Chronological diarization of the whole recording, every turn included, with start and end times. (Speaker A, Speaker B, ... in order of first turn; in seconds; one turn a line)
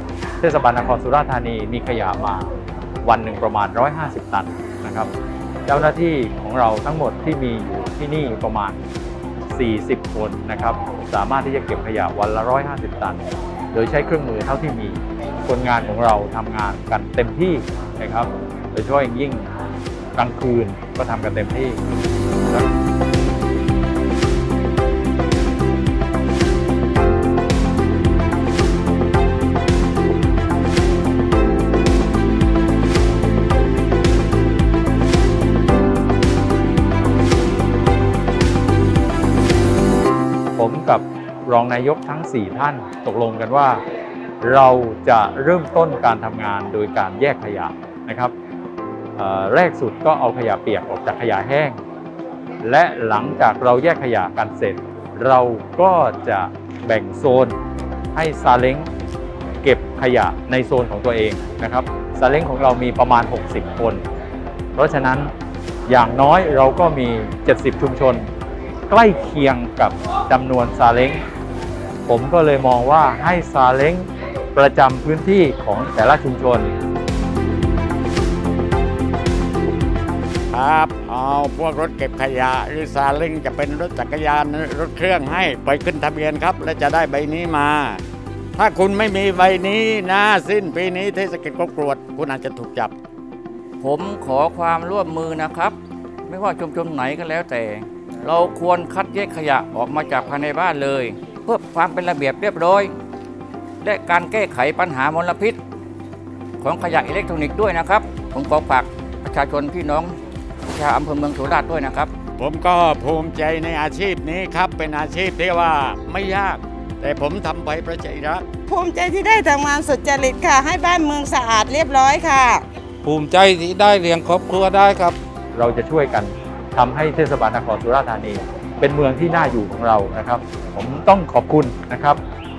Speaker A: 0.4-2.5
Speaker A: 3.0-5.1
Speaker A: 5.7-8.8
Speaker A: 9.5-13.2
Speaker A: 13.7-19.5
Speaker A: 20.1-21.8
Speaker A: 40.5-43.8
Speaker A: 44.4-48.3
Speaker A: 49.2-51.8
Speaker A: 52.6-57.6
Speaker A: 58.1-58.9
Speaker A: 59.6-64.0
Speaker A: 64.8-65.3
Speaker A: 65.9-68.3
Speaker A: 68.9-71.2
Speaker A: 72.1-76.7
Speaker B: 80.5-88.0
Speaker B: 88.5-92.9
Speaker C: 93.8-102.9
Speaker C: 103.8-105.6
Speaker C: 106.6-110.2
Speaker C: 110.7-112.1
Speaker B: 112.4-118.5
Speaker D: 118.7-122.6
Speaker E: 123.0-125.2
Speaker A: 125.5-132.2